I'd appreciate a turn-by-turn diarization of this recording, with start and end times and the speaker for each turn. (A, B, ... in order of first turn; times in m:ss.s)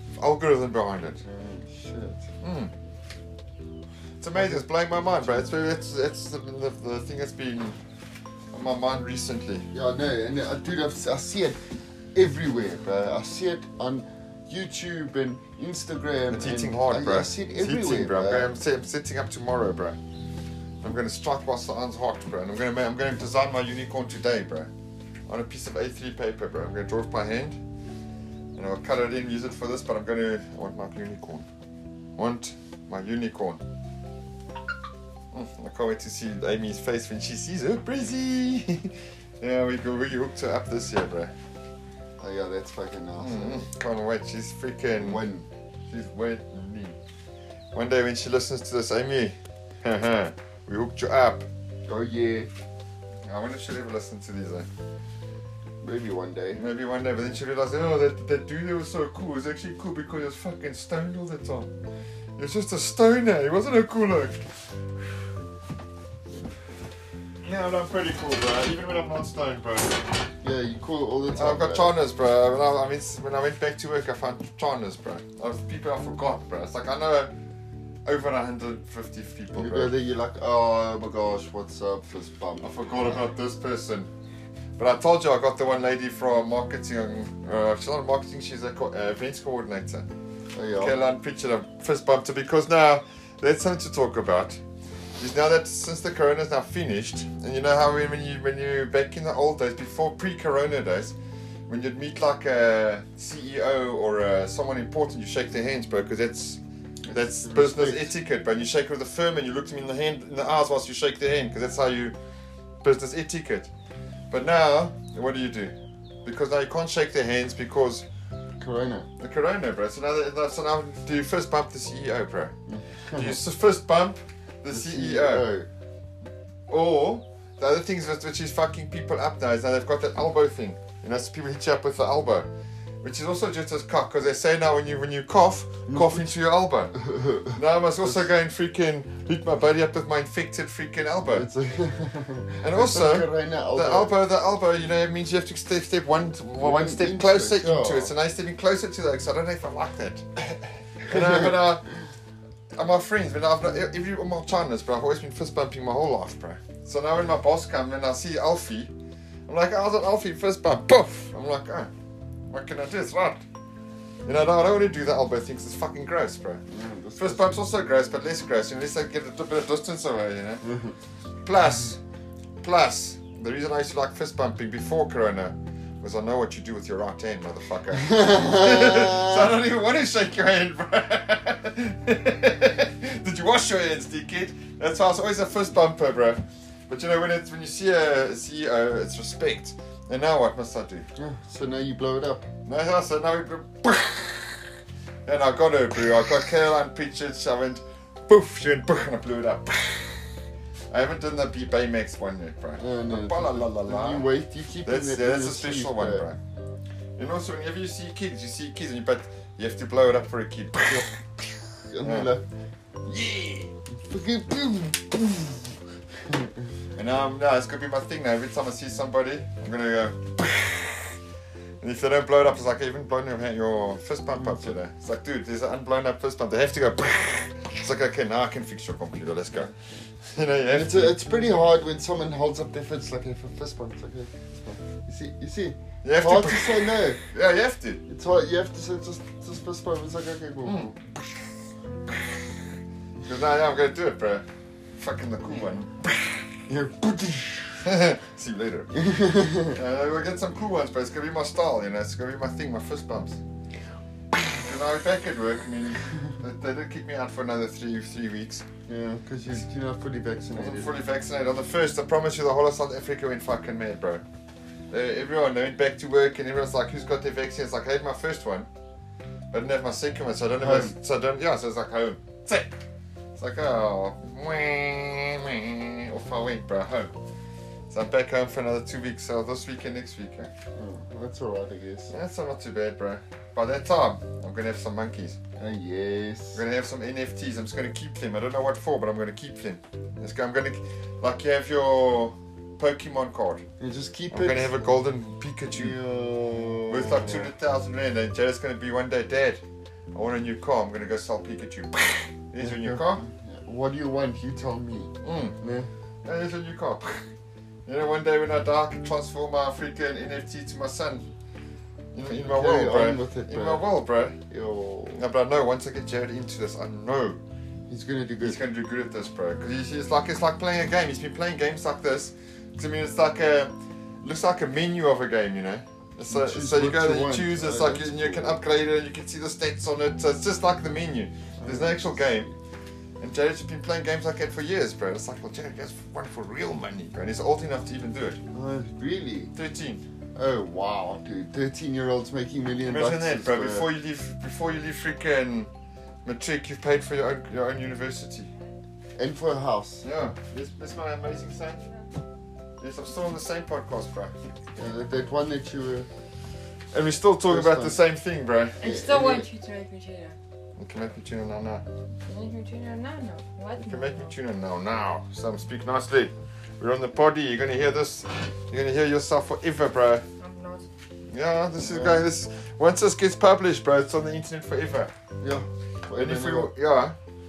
0:00.2-0:01.2 A
0:01.2-0:02.3 B
0:02.4-0:02.7 A
0:04.2-0:07.8 A
0:04.4-0:05.4 B
0:08.5-0:09.7 A
0:09.7-0:11.6 B
0:12.1-0:18.5 B
0:16.3-0:20.0 A
0:20.8-0:24.7 A
0:25.3-0:27.6 A
0:28.6-0:31.5 A
0:32.2-0:33.6 A
0:35.3-0:41.3 A
0:42.2-0:43.7 B
0:43.2-0:45.2 A
0:45.0-0:45.5 B
0:45.9-0:47.0 A
0:47.7-0:51.5 A
0:51.9-0:52.5 B
0:53.2-0:54.7 A
0:55.8-0:56.6 B
0:56.6-1:01.7 A
1:02.4-1:04.4 A
1:07.4-1:10.1 A
1:10.4-1:11.9 B
1:11.3-1:17.3 A
1:18.1-1:19.9 A
1:19.5-1:22.7 B
1:22.6-1:24.1 A
1:24.8-1:30.1 A
1:30.6-1:31.0 B
1:30.8-1:34.6 A
1:35.2-1:41.2 A
1:41.7-1:46.6 A
1:47.1-1:48.1 B
1:47.1-1:52.2 A
1:52.8-1:53.7 A
1:54.3-1:58.0 A
1:58.6-1:59.1 B
1:59.2-2:02.5 A
2:02.7-2:03.4 B
2:03.2-2:05.5 A
2:04.7-2:05.7 B
2:06.7-2:12.5 A
2:13.0-2:17.0 A
2:15.9-2:16.3 B
2:17.0-2:18.2 B
2:17.5-2:21.5 A
2:21.3-2:24.2 B
2:22.6-2:30.3 A
2:26.6-2:28.1 B
2:31.0-2:31.9 A
2:31.1-2:31.5 B
2:32.7-2:38.9 A
2:39.5-2:41.9 A
2:42.5-2:43.4 A
2:44.2-2:46.6 A
2:46.7-2:47.6 B
2:47.2-2:50.6 A
2:50.6-2:51.0 B
2:51.4-2:52.0 A
2:52.6-3:11.1 A
2:57.9-2:59.5 B
3:11.2-3:12.5 B
3:12.6-3:14.6 A
3:15.2-3:20.2 A
3:20.9-3:24.3 A
3:22.8-3:26.3 B
3:24.8-3:26.4 A
3:27.2-3:31.0 A
3:30.8-3:31.1 B
3:31.7-3:32.4 B
3:32.0-3:32.3 A
3:33.0-3:33.7 A
3:34.1-3:35.7 B
3:36.3-3:36.5 B
3:37.0-3:41.2 A
3:41.8-3:49.7 A
3:44.4-3:44.7 B
3:50.3-3:51.2 A
3:50.7-3:57.2 B
3:56.0-3:58.0 A
3:58.1-4:00.9 B
4:00.6-4:00.9 A
4:02.1-4:02.5 A
4:03.2-4:04.4 A
4:05.0-4:06.4 A
4:06.7-4:07.9 B
4:07.8-4:08.9 A
4:08.9-4:09.8 B
4:09.7-4:13.4 A
4:14.5-4:18.6 A
4:18.9-4:20.9 B
4:20.5-4:24.2 A
4:24.9-4:28.7 A
4:29.5-4:32.7 A
4:30.6-4:31.0 B
4:33.4-4:37.1 A
4:37.9-4:40.5 A
4:40.8-4:42.1 B
4:42.1-4:45.4 A
4:45.6-4:46.6 B
4:46.6-4:53.6 A
4:53.8-4:54.9 B
4:54.3-4:56.0 A
4:55.7-4:57.5 B
4:56.9-4:59.6 A
5:00.1-5:03.2 A
5:02.6-5:05.9 B
5:05.2-5:05.6 A
5:06.2-5:07.2 A
5:07.9-5:11.3 A
5:12.1-5:14.4 A
5:12.4-5:13.9 B
5:14.5-5:15.2 B
5:15.2-5:17.4 A
5:17.9-5:18.6 B
5:18.4-5:32.5 A
5:26.3-5:28.6 B
5:31.6-5:32.2 B
5:33.2-5:38.4 A
5:38.5-5:39.5 B
5:39.6-5:40.0 A
5:40.4-5:43.9 B
5:42.8-5:45.7 A
5:46.2-5:48.5 A
5:49.2-5:50.0 B
5:50.0-5:51.8 A
5:52.8-5:54.3 A
5:54.8-5:56.1 B
5:56.9-5:58.8 A
5:57.5-5:58.0 B
5:58.8-6:00.4 C
5:58.8-5:59.5 B
6:00.8-6:01.8 A
6:02.2-6:04.4 C
6:03.8-6:10.2 A
6:10.4-6:10.9 C
6:11.3-6:15.1 A
6:11.8-6:12.3 B
6:15.4-6:16.7 B
6:16.2-6:17.2 A